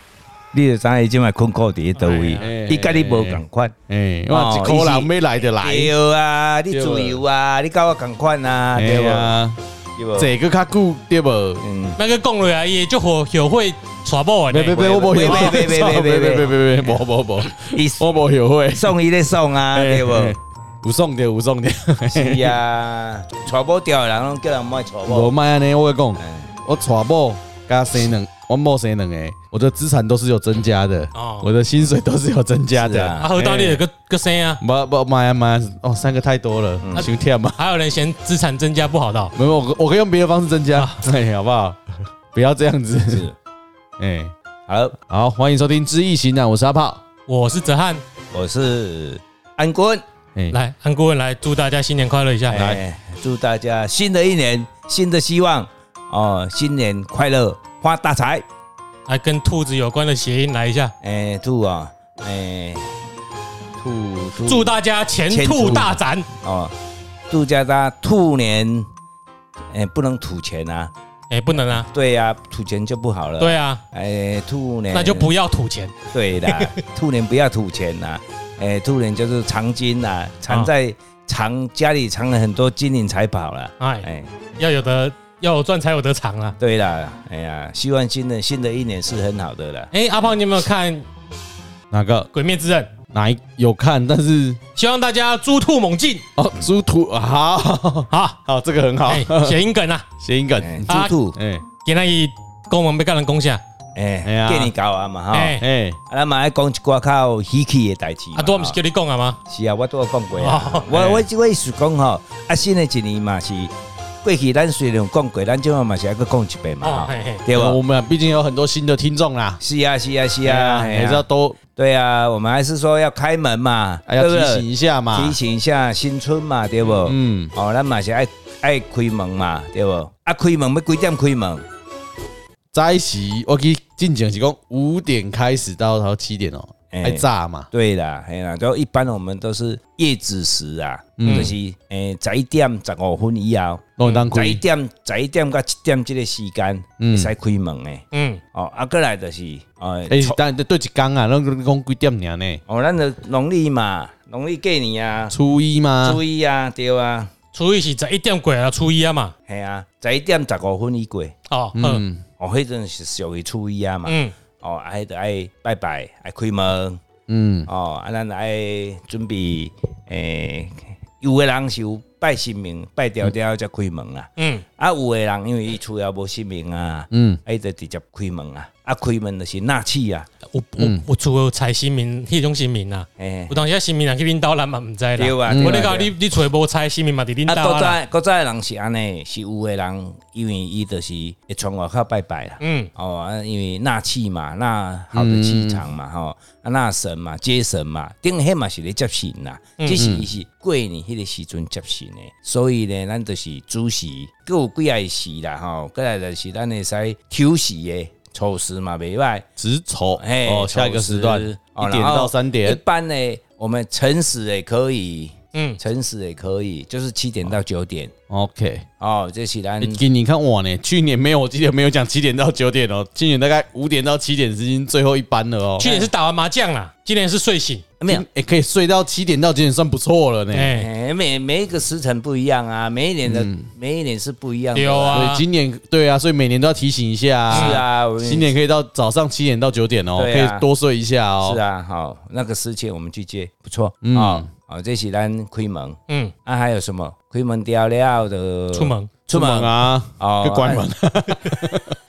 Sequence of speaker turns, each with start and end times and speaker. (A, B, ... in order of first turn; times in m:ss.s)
0:00.5-0:03.7 A
0:02.0-0:02.5 B
0:02.4-0:05.9 C
0:04.3-0:09.4 A
0:06.7-0:07.2 C
0:08.8-0:09.6 C
0:10.0-0:10.3 A
0:10.2-0:11.6 C
0:11.6-0:12.0 A
0:12.0-0:15.7 B
0:14.5-0:18.9 C
0:14.7-0:17.0 A
0:17.6-0:18.1 A
0:18.7-0:20.4 A
0:19.7-0:22.6 C
0:22.1-0:25.3 A
0:25.1-0:33.2 C
0:26.2-0:26.5 A
0:31.1-0:31.5 B
0:32.7-0:33.8 A
0:33.2-0:34.6 B
0:34.6-0:37.6 C
0:36.8-0:37.1 A
0:36.9-0:39.3 B
0:39.4-0:41.8 C
0:40.8-0:41.0 B
0:42.3-0:43.3 C
0:43.1-0:43.4 A
0:44.0-0:44.3 C
0:44.7-0:45.0 A
0:45.1-0:47.0 C
0:47.3-0:48.0 B
0:48.3-0:50.0 A
0:50.5-0:52.6 B
0:52.5-0:58.4 A
0:52.5-0:52.8 C
0:59.1-1:00.9 B
1:01.0-1:03.0 A
1:03.8-1:04.7 A
1:04.4-1:06.3 B
1:05.3-1:06.7 A
1:07.3-1:08.9 A
1:09.7-1:10.9 A
1:11.3-1:11.9 B
1:11.9-1:15.3 A
1:13.4-1:13.8 B
1:14.9-1:16.8 B
1:16.1-1:24.3 A
1:23.8-1:26.6 B
1:26.6-1:29.9 A
1:29.9-1:31.1 B
1:31.9-1:32.3 C
1:32.3-1:32.9 B
1:33.1-1:34.6 C
1:34.8-1:36.3 B
1:36.4-1:39.6 C
1:38.1-1:38.4 B
1:39.1-1:40.1 B
1:40.2-1:41.6 C
1:40.6-1:41.4 A
1:40.9-1:41.2 B
1:41.8-1:43.6 B
1:44.0-1:48.8 A
1:44.2-1:44.7 C
1:45.3-1:45.6 B
1:45.6-1:46.0 C
1:48.4-1:49.4 B
1:49.5-1:57.8 A
1:50.4-1:51.2 B
1:56.8-1:57.4 B
1:57.5-1:59.6 C
1:59.6-2:01.2 A
2:00.4-2:01.6 C
2:01.8-2:11.6 A
2:04.1-2:05.4 C
2:07.0-2:07.5 C
2:12.7-2:17.7 C
2:16.9-2:30.4 A
2:21.2-2:21.5 C
2:21.2-2:21.5 B
2:24.0-2:24.6 C
2:27.0-2:27.3 C
2:28.1-2:28.4 B
2:30.1-2:32.6 C
2:32.7-2:35.4 A
2:35.3-2:36.2 C
2:36.0-2:37.3 A
2:37.5-2:39.3 B
2:39.5-2:41.3 A
2:41.5-2:42.0 B
2:41.8-2:42.2 C
2:42.4-2:47.0 A
2:44.1-2:44.3 B
2:47.3-2:47.7 C
2:47.7-3:00.3 A
2:54.4-2:54.6 B
2:57.1-2:57.4 C
3:00.5-3:08.0 B
3:00.8-3:01.0 C
3:03.2-3:03.6 A
3:05.2-3:06.1 A
3:05.5-3:05.9 C
3:07.5-3:29.5 A
3:12.6-3:12.9 B
3:15.2-3:15.8 C
3:20.0-3:20.3 C
3:29.6-3:32.8 C
3:30.2-3:38.1 A
3:35.5-3:35.8 B
3:38.3-3:38.8 C
3:39.0-3:40.0 A
3:39.8-3:46.1 C
3:45.8-3:47.9 B
3:48.0-3:48.2 A
3:48.1-3:50.7 C
3:50.5-3:50.9 B
3:50.7-3:55.3 A
3:53.2-3:53.7 C
3:54.8-3:55.4 B
3:55.1-4:01.6 C
3:57.5-3:57.8 B
3:57.5-3:58.5 A
4:00.2-4:00.7 A
4:01.4-4:10.8 A
4:04.0-4:04.5 C
4:06.1-4:06.3 B
4:08.7-4:09.1 B
4:09.3-4:12.0 C